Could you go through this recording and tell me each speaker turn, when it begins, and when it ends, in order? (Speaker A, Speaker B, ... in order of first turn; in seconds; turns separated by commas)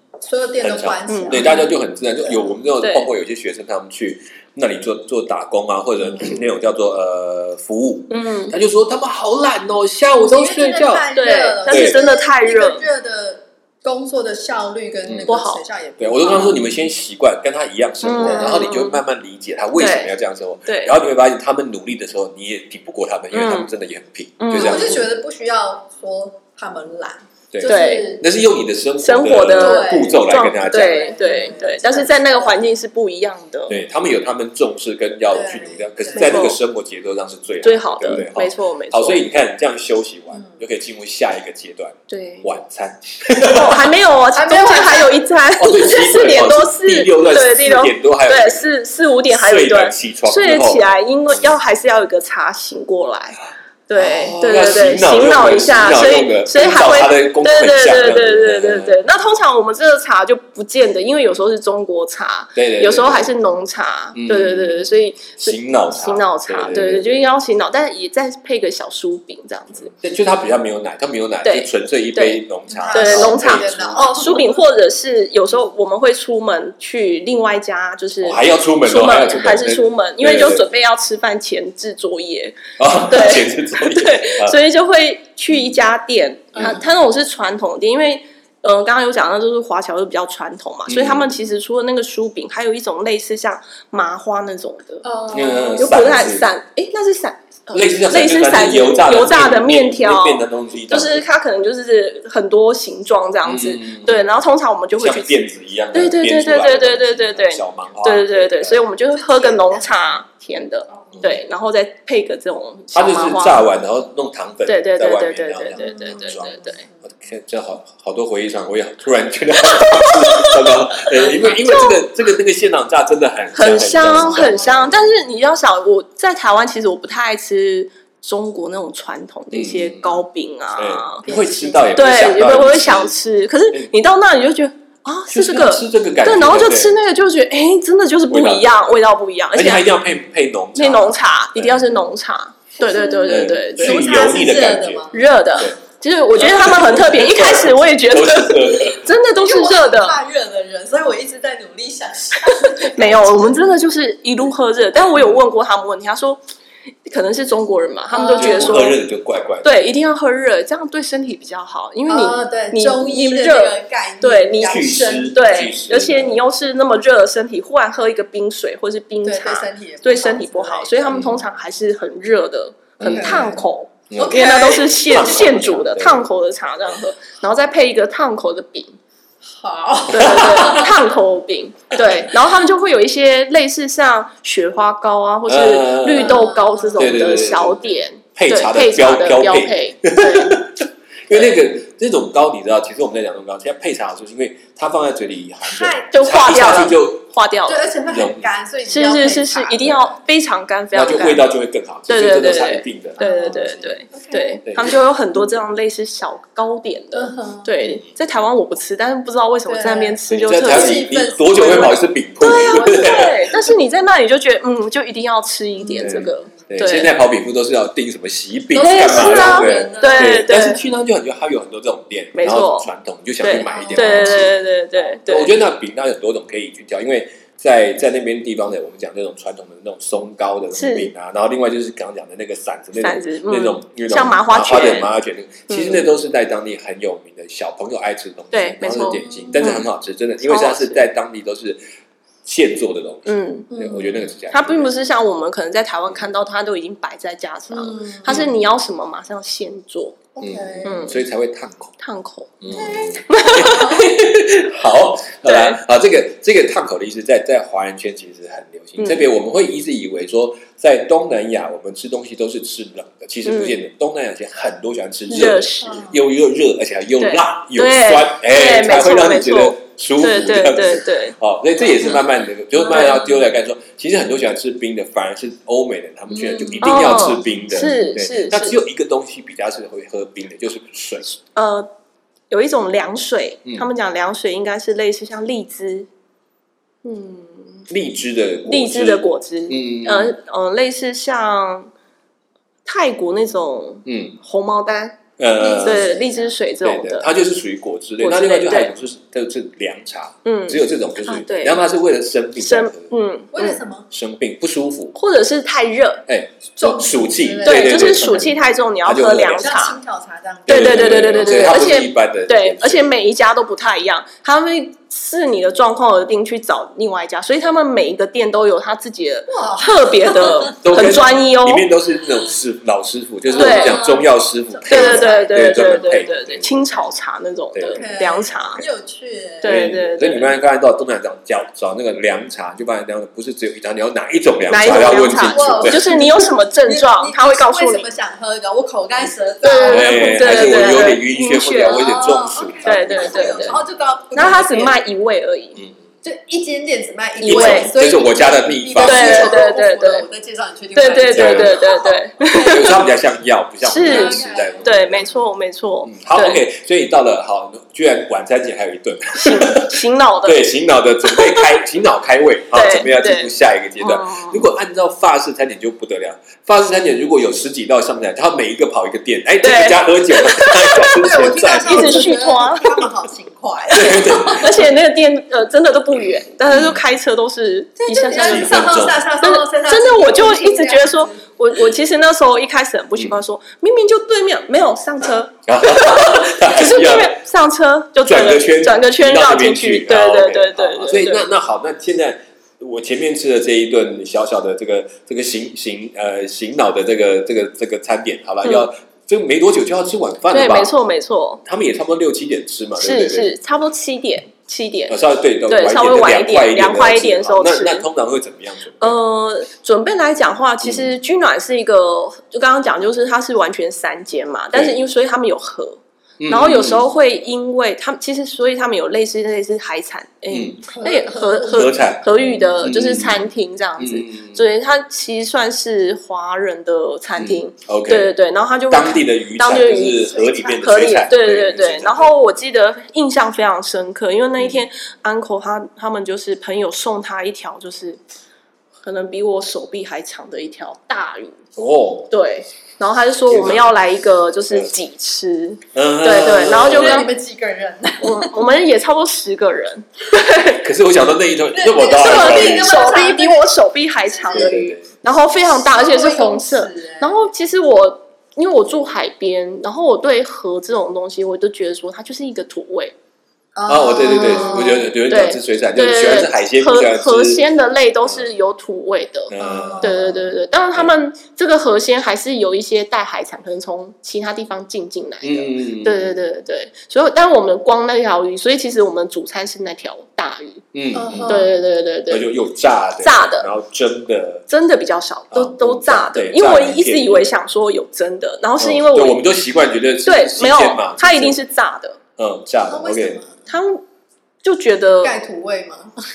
Speaker A: 0.2-1.7, Speaker B: 0.6-11.1, Speaker C: 1.1-1.6, Speaker C: 2.8-3.1, Speaker C: 8.1-8.5, Speaker A: 10.2-16.7, Speaker C: 11.1-12.8, Speaker B: 11.7-12.0, Speaker B: 15.1-15.3, Speaker C: 15.3-15.6, Speaker B: 16.0-25.0, Speaker C: 18.0-19.0, Speaker A: 18.2-18.6, Speaker C: 19.8-20.1, Speaker C: 20.6-20.9, Speaker C: 23.3-23.7, Speaker C: 24.4-25.0, Speaker A: 24.5-28.2, Speaker B: 27.5-31.1, Speaker C: 27.6-28.1, Speaker C: 29.0-33.8, Speaker A: 29.5-32.6, Speaker B: 33.7-43.9, Speaker A: 35.3-36.4, Speaker C: 36.1-36.6, Speaker C: 37.6-39.2, Speaker A: 40.3-40.6, Speaker C: 42.1-42.5, Speaker C: 43.5-69.9, Speaker A: 44.3-45.2, Speaker B: 45.6-48.7, Speaker B: 49.3-51.5, Speaker B: 54.0-59.0, Speaker B: 62.6-63.3, Speaker B: 64.1-67.2, Speaker B: 69.9-74.5, Speaker C: 71.4-95.0, Speaker A: 72.7-74.6, Speaker B: 78.2-80.7, Speaker B: 82.8-84.6, Speaker B: 86.5-86.8, Speaker B: 90.9-91.3, Speaker A: 95.0-96.1, Speaker B: 95.3-96.5, Speaker C: 95.8-105.4, Speaker B: 97.7-101.2, Speaker B: 103.5-104.3, Speaker B: 105.0-108.8, Speaker C: 105.9-113.7, Speaker A: 109.1-110.2, Speaker B: 112.9-125.1, Speaker C: 114.7-116.8, Speaker A: 115.8-117.0, Speaker C: 119.7-120.7, Speaker C: 121.3-122.0, Speaker C: 123.5-131.3, Speaker A: 124.0-125.0, Speaker B: 129.5-130.2, Speaker B: 130.8-133.2, Speaker A: 131.3-131.9, Speaker C: 131.9-139.9, Speaker B: 135.3-136.9, Speaker B: 138.3-139.0, Speaker B: 139.5-141.8, Speaker C: 140.8-144.1, Speaker A: 142.8-145.2, Speaker B: 143.3-145.8, Speaker C: 145.1-150.2, Speaker B: 146.3-149.1, Speaker A: 149.4-153.7, Speaker C: 152.5-156.4, Speaker C: 157.1-158.9, Speaker A: 158.1-158.8, Speaker B: 158.4-159.7, Speaker C: 159.6-178.9, Speaker A: 162.1-165.7, Speaker B: 164.6-166.4, Speaker A: 169.2-171.3, Speaker B: 171.1-171.4, Speaker B: 173.0-174.5, Speaker A: 173.0-173.6, Speaker A: 174.2-175.5, Speaker B: 175.1-176.3, Speaker A: 179.4-181.0, Speaker C: 180.1-190.6, Speaker B: 180.2-180.8, Speaker B: 185.5-186.5, Speaker A: 186.2-187.4, Speaker B: 187.0-187.8, Speaker B: 188.3-197.2, Speaker A: 195.6-196.2, Speaker C: 196.1-197.9, Speaker A: 197.7-200.0, Speaker B: 198.1-198.5, Speaker C: 198.8-201.5, Speaker B: 200.9-203.2, Speaker C: 202.1-211.0, Speaker A: 203.2-204.6, Speaker B: 204.7-204.9, Speaker A: 207.1-207.7, Speaker A: 209.7-212.1, Speaker B: 210.3-213.4, Speaker C: 212.4-217.1, Speaker A: 212.9-213.2, Speaker A: 215.8-216.8, Speaker B: 215.9-224.5, Speaker A: 218.7-220.4, Speaker C: 218.8-220.8, Speaker C: 222.3-222.9, Speaker C: 223.4-225.5, Speaker A: 223.7-225.1, Speaker B: 225.3-241.8, Speaker C: 230.8-231.1, Speaker C: 233.0-235.1, Speaker C: 235.7-236.1, Speaker C: 238.5-239.8, Speaker A: 239.2-239.8, Speaker C: 240.4-241.0, Speaker B: 242.4-244.9, Speaker C: 243.2-243.7, Speaker A: 243.7-244.3, Speaker C: 244.5-250.2, Speaker A: 247.7-248.3, Speaker B: 248.2-248.5, Speaker A: 250.3-251.1, Speaker B: 250.4-251.9, Speaker C: 250.8-251.2, Speaker C: 252.0-254.2, Speaker B: 252.6-281.2, Speaker A: 252.7-254.1, Speaker C: 255.4-255.8, Speaker C: 259.0-259.3, Speaker C: 263.5-263.8, Speaker C: 265.3-266.1, Speaker A: 265.8-266.1, Speaker C: 267.2-271.4, Speaker C: 272.8-273.2, Speaker A: 276.3-276.9, Speaker C: 276.8-278.8, Speaker C: 281.5-281.9, Speaker C: 282.5-286.1, Speaker C: 287.0-287.9, Speaker B: 287.9-290.3, Speaker C: 288.7-291.9, Speaker C: 292.9-295.2, Speaker B: 294.1-294.4, Speaker B: 295.4-296.1, Speaker A: 295.6-296.5, Speaker C: 295.8-297.3, Speaker B: 296.8-303.1, Speaker C: 298.2-298.9, Speaker C: 300.4-301.8, Speaker C: 302.6-303.8, Speaker A: 303.5-304.1, Speaker B: 304.1-305.1, Speaker C: 305.1-306.2, Speaker B: 306.3-309.7, Speaker A: 306.8-308.4, Speaker C: 307.6-310.0, Speaker A: 309.5-311.6, Speaker B: 310.7-313.1, Speaker C: 310.7-321.9, Speaker A: 319.5-321.0, Speaker B: 320.8-326.7, Speaker A: 323.5-326.0, Speaker C: 323.6-324.1, Speaker C: 324.9-328.8, Speaker B: 327.7-328.0, Speaker A: 327.9-329.8, Speaker C: 329.6-330.5, Speaker B: 329.6-336.1, Speaker C: 334.7-338.1, Speaker A: 335.0-341.2, Speaker C: 339.6-342.2, Speaker B: 339.9-343.8, Speaker A: 341.8-345.0, Speaker C: 342.8-343.8, Speaker C: 344.3-345.8, Speaker A: 346.2-352.9, Speaker C: 347.4-347.9, Speaker B: 347.4-349.6, Speaker C: 349.0-350.2, Speaker C: 350.9-353.0, Speaker B: 351.3-351.9, Speaker B: 352.5-355.3, Speaker C: 353.8-356.6, Speaker A: 353.9-355.4, Speaker B: 356.1-372.3, Speaker C: 359.4-360.6, Speaker C: 361.2-361.7, Speaker C: 362.7-364.7, Speaker C: 369.6-371.2, Speaker A: 371.0-374.7, Speaker C: 371.9-373.0, Speaker B: 373.9-374.9, Speaker C: 373.9-391.5, Speaker B: 376.7-377.0, Speaker A: 378.0-381.4, Speaker B: 378.4-379.2, Speaker B: 385.7-387.4, Speaker B: 388.2-400.9, Speaker C: 400.5-401.6, Speaker B: 401.6-403.5, Speaker C: 403.0-408.0, Speaker B: 405.1-409.2, Speaker C: 409.0-438.2, Speaker B: 410.8-411.1, Speaker B: 416.4-417.1, Speaker B: 420.5-420.8, Speaker A: 420.9-421.9, Speaker B: 421.7-423.5, Speaker B: 424.0-424.6, Speaker B: 427.4-428.3, Speaker B: 428.9-432.4, Speaker A: 430.1-430.8, Speaker B: 434.6-434.8, Speaker C: 439.0-441.6, Speaker B: 441.8-442.3, Speaker C: 442.3-447.3, Speaker B: 443.5-443.9, Speaker B: 445.9-447.3, Speaker A: 446.7-448.5, Speaker C: 448.2-450.8, Speaker B: 450.8-453.0, Speaker A: 451.7-453.7, Speaker C: 452.2-463.1, Speaker A: 454.3-454.8, Speaker B: 454.5-455.1, Speaker A: 455.6-457.3, Speaker A: 463.8-465.1, Speaker B: 463.9-467.6, Speaker C: 464.2-480.8, Speaker B: 469.5-470.2, Speaker A: 469.6-470.5, Speaker B: 475.4-476.3, Speaker B: 480.9-481.7, Speaker A: 481.1-481.7, Speaker C: 481.5-482.5, Speaker B: 482.3-484.7, Speaker C: 483.2-483.7, Speaker C: 484.7-489.4, Speaker B: 485.5-487.5, Speaker B: 488.8-491.6, Speaker C: 490.2-492.2, Speaker B: 492.4-493.4, Speaker A: 492.9-493.6, Speaker C: 493.7-494.0, Speaker C: 494.6-495.4, Speaker A: 495.2-496.1